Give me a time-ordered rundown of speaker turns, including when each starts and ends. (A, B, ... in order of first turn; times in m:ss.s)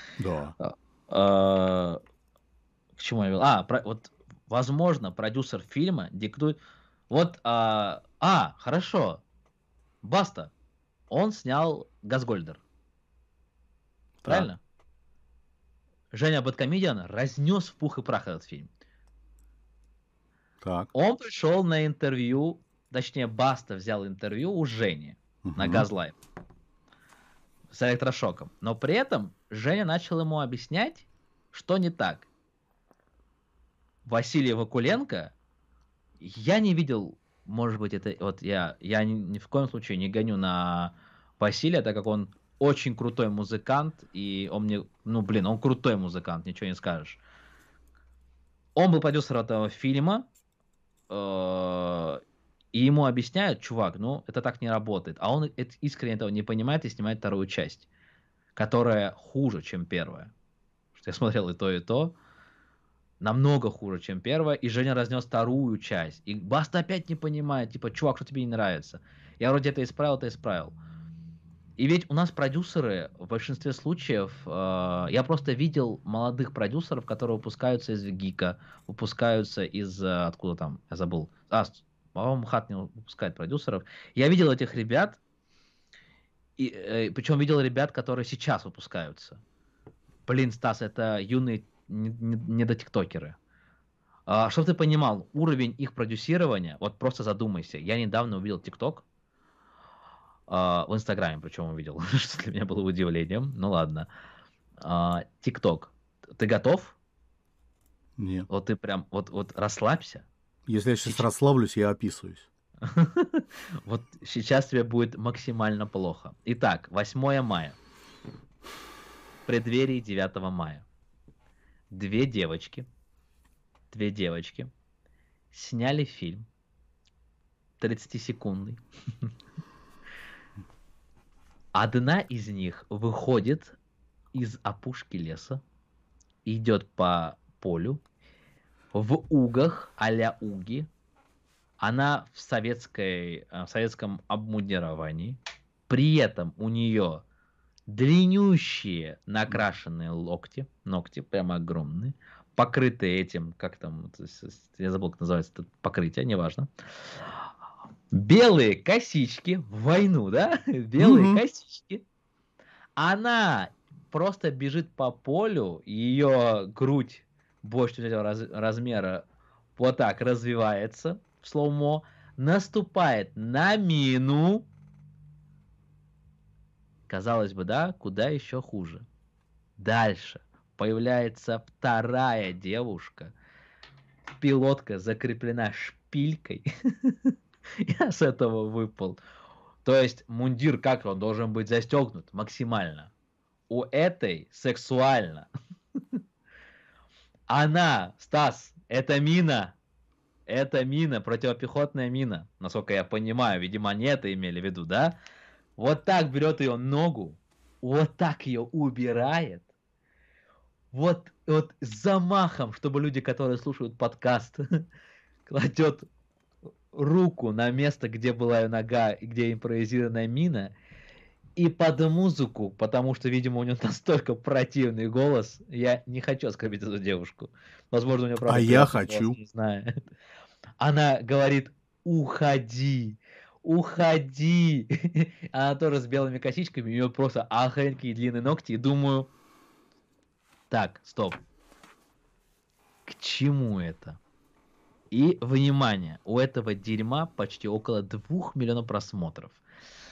0:00.2-0:00.6 A
0:00.6-0:02.0 B
0:03.0-0:06.6 B
0:07.1-0:09.2 B
0:10.0-0:10.5 B
0:11.1-0:12.6 B
0:14.2-0:14.5 A
0:14.2-0:14.6 B
0:16.1-0:18.7 B
0:20.6-0:20.9 A
0:20.9-0:26.1 B
0:25.4-0:25.9 A
0:27.7-0:32.3 B
0:34.0-0:35.3 B
0:36.2-0:47.2 B
0:48.7-0:50.3 B
0:51.1-0:52.2 B
0:52.7-0:57.9 B
0:58.5-1:00.3 B
1:00.9-1:02.2 B
1:03.2-1:10.8 B
1:11.8-1:25.2 B
1:26.6-1:29.4 B
1:30.2-1:33.4 B
1:34.3-1:39.0 B
1:40.5-1:44.1 B
1:44.8-1:47.0 B
1:48.2-1:48.5 A
1:48.5-1:50.3 B
1:50.7-1:52.5 A
1:52.8-1:57.8 B
1:59.4-2:00.8 B
2:01.9-2:02.9 B
2:03.9-2:04.7 B
2:05.5-2:06.5 B
2:07.8-2:09.3 B
2:11.7-2:13.8 B
2:14.3-2:15.6 B
2:16.4-2:18.0 B
2:18.9-2:20.9 B
2:21.8-2:27.2 B
2:27.9-2:37.5 B
2:38.1-2:42.0 B
2:41.0-2:41.4 A
2:43.0-2:49.2 B
2:49.8-2:54.7 B
2:57.1-2:59.0 B
2:59.8-3:03.3 B
3:04.4-3:09.2 B
3:09.8-3:13.1 B
3:13.7-3:15.5 B
3:17.5-3:19.7 B
3:20.5-3:25.2 B
3:25.8-3:29.6 B
3:30.9-3:34.8 B
3:35.5-3:36.1 B
3:36.9-3:40.7 B
3:41.6-3:50.0 B
3:48.4-3:49.4 A
3:50.8-3:59.3 B
4:00.7-4:01.4 B
4:03.0-4:04.2 B
4:05.1-4:09.6 B